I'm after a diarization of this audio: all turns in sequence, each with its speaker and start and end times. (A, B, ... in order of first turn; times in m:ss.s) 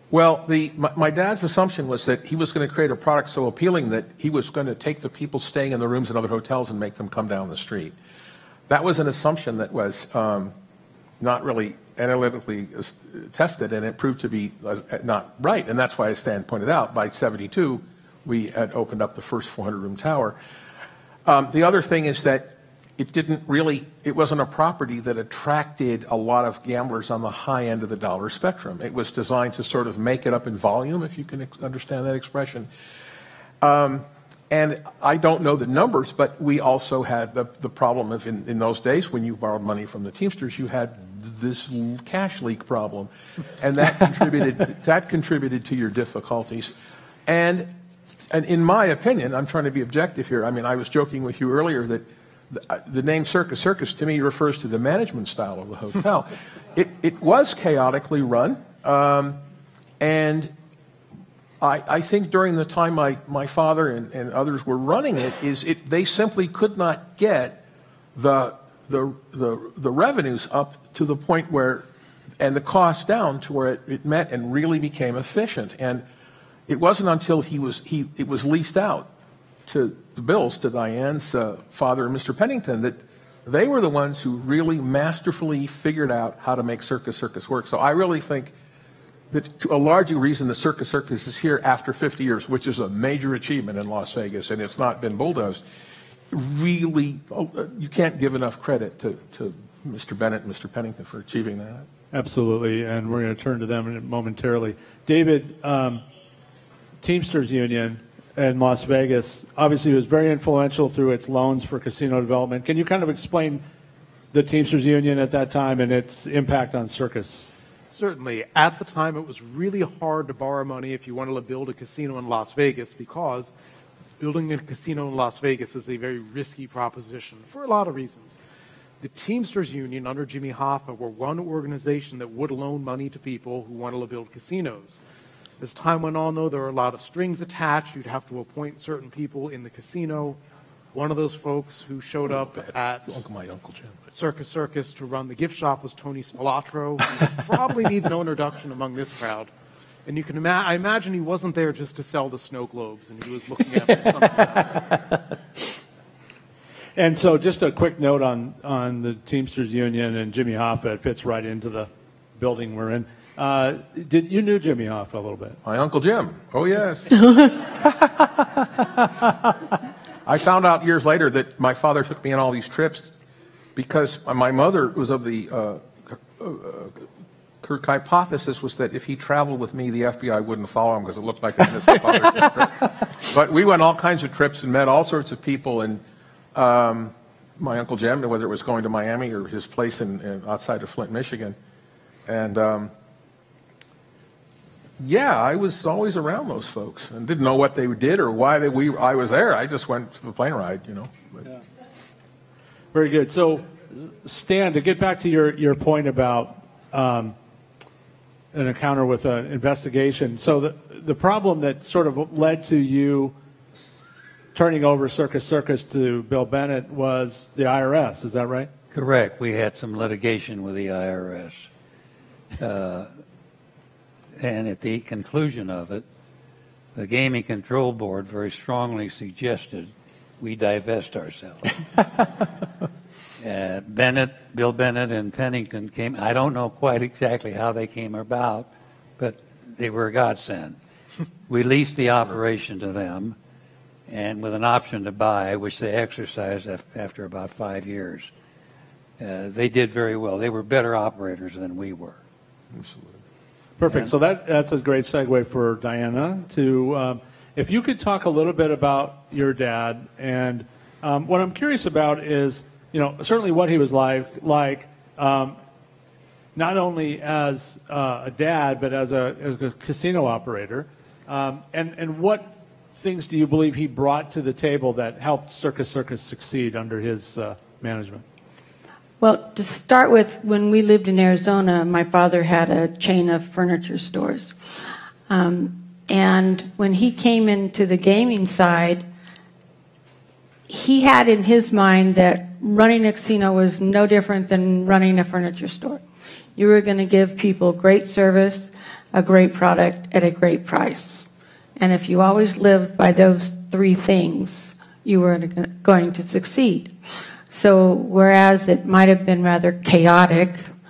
0:00.1-0:07.9 A
0:08.7-0:10.5 A
0:11.2-0:20.4 A
0:21.2-0:32.7 A
0:33.6-0:46.7 A
0:47.3-0:47.7 A
0:48.3-0:59.4 A
1:00.0-1:00.5 A
1:01.6-1:07.6 A
1:08.1-1:11.8 A
1:12.4-1:16.0 A
1:16.7-1:19.1 A
1:19.7-1:28.5 A
1:29.3-1:35.6 A
1:36.3-1:41.9 A
1:42.1-1:46.0 B
1:47.0-1:53.6 B
1:54.3-1:57.5 B
1:57.9-2:03.5 C
2:04.2-2:08.4 C
2:09.0-2:15.0 C
2:15.6-2:20.4 C
2:20.9-2:23.2 C
2:23.1-2:24.0 A
2:24.1-2:29.5 C
2:30.0-2:35.0 C
2:37.0-2:45.6 B
2:45.6-2:47.6 A
2:50.2-2:53.1 A
2:53.8-2:57.0 A
2:57.6-3:06.0 A
3:06.5-3:11.6 A
3:12.2-3:12.9 A
3:15.0-3:21.4 A
3:22.9-3:27.3 B
3:28.5-3:33.3 B
3:34.5-3:38.7 B
3:38.9-3:41.7 D
3:42.6-3:43.1 D
3:44.4-3:46.0 D
3:47.0-3:52.0 D
3:53.4-4:00.8 D
4:01.5-4:03.4 D
4:04.1-4:08.3 D
4:09.2-4:12.2 D
4:12.7-4:13.2 A
4:13.8-4:25.6 B
4:26.6-4:38.2 B
4:39.2-4:44.5 E
4:45.3-4:49.0 E
4:50.7-4:56.0 E
4:56.6-5:01.2 E
5:01.8-5:06.9 E
5:07.5-5:10.7 E